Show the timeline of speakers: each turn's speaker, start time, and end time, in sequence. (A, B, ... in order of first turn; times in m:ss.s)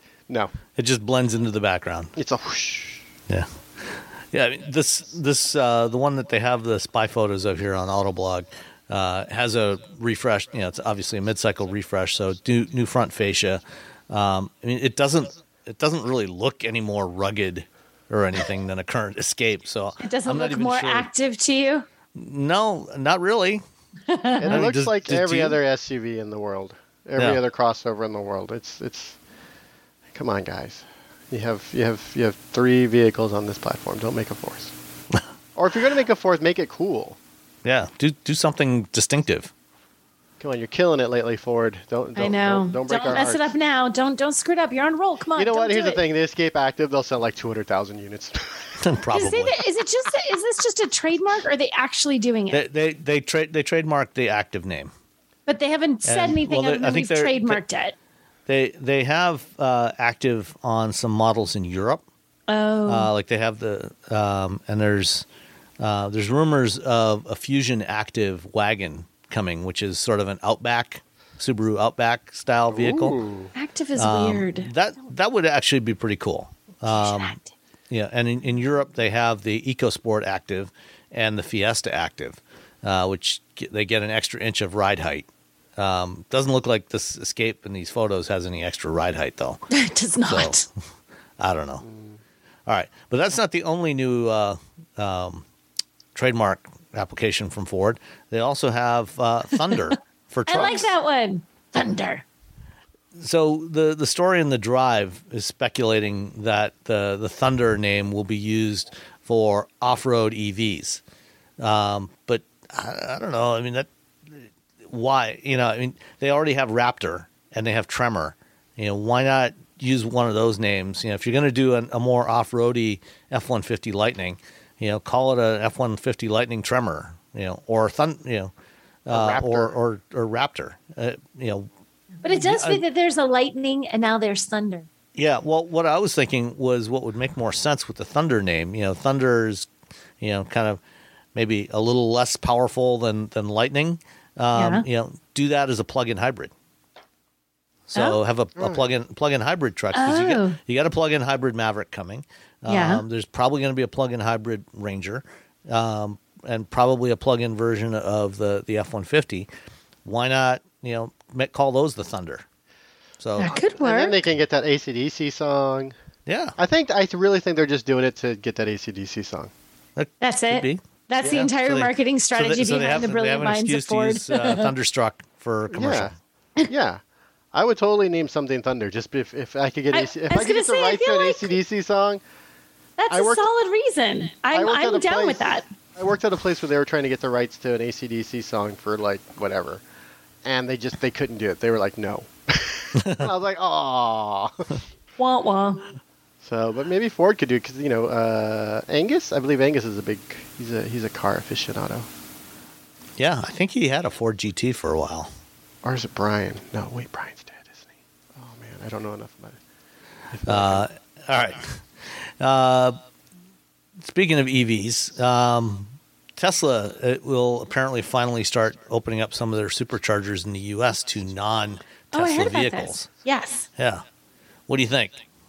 0:00.8-0:02.1 A
0:02.2-0:03.0 B
0:03.3-0:21.1 A
0:20.0-0:21.8 C
0:22.1-0:23.6 A
0:24.1-0:24.5 C
0:24.4-0:29.2 B
0:24.5-0:25.6 A
0:30.1-0:34.7 B
0:35.5-0:37.2 B
0:37.6-0:39.5 A
0:40.4-0:43.5 B
0:42.2-0:46.0 C
0:45.3-0:48.8 B
0:48.8-0:49.6 A
0:49.1-0:52.6 C
0:52.5-0:54.9 A
0:55.5-0:57.9 C
0:56.0-0:57.6 A
0:58.5-1:02.0 A
1:02.5-1:03.1 C
1:02.9-1:05.2 A
1:05.8-1:13.2 A
1:12.7-1:13.5 B
1:13.6-1:14.7 C
1:14.0-1:17.4 A
1:16.9-1:17.4 C
1:17.9-1:29.6 A
1:29.7-1:30.6 C
1:30.2-1:30.6 A
1:31.4-1:31.8 A
1:31.8-1:32.2 B
1:32.7-1:35.4 A
1:36.1-1:40.9 A
1:40.5-1:42.2 C
1:43.2-1:51.0 A
1:51.6-2:08.5 A
2:09.0-2:11.7 A
2:09.1-2:09.8 B
2:12.2-2:14.9 C
2:12.3-2:12.8 A
2:15.1-2:19.7 A
2:20.2-2:20.8 A
2:21.3-2:26.5 A
2:24.5-2:24.8 C
2:27.9-2:39.5 A
2:28.6-2:28.8 B
2:29.9-2:30.6 C
2:32.7-2:33.0 C
2:40.0-2:42.4 A
2:43.2-2:43.5 A
2:43.4-2:44.2 C
2:43.4-2:45.9 B
2:46.3-2:46.6 A
2:46.6-2:49.5 B
2:50.0-2:56.1 A
2:50.2-2:54.7 C
2:55.7-2:56.1 B
2:56.7-2:57.0 B
2:57.5-3:02.2 B
2:59.9-3:01.5 C
3:03.0-3:05.6 C
3:03.1-3:03.4 B
3:04.5-3:09.8 B
3:10.4-3:14.8 B
3:13.0-3:13.3 A
3:15.2-3:15.8 C
3:16.4-3:22.1 B
3:23.2-3:25.3 A
3:25.8-3:29.6 B
3:30.3-3:30.8 B
3:30.4-3:33.0 A
3:34.0-3:43.1 A
3:42.1-3:43.7 C
3:43.8-3:44.0 A
3:44.7-3:45.2 A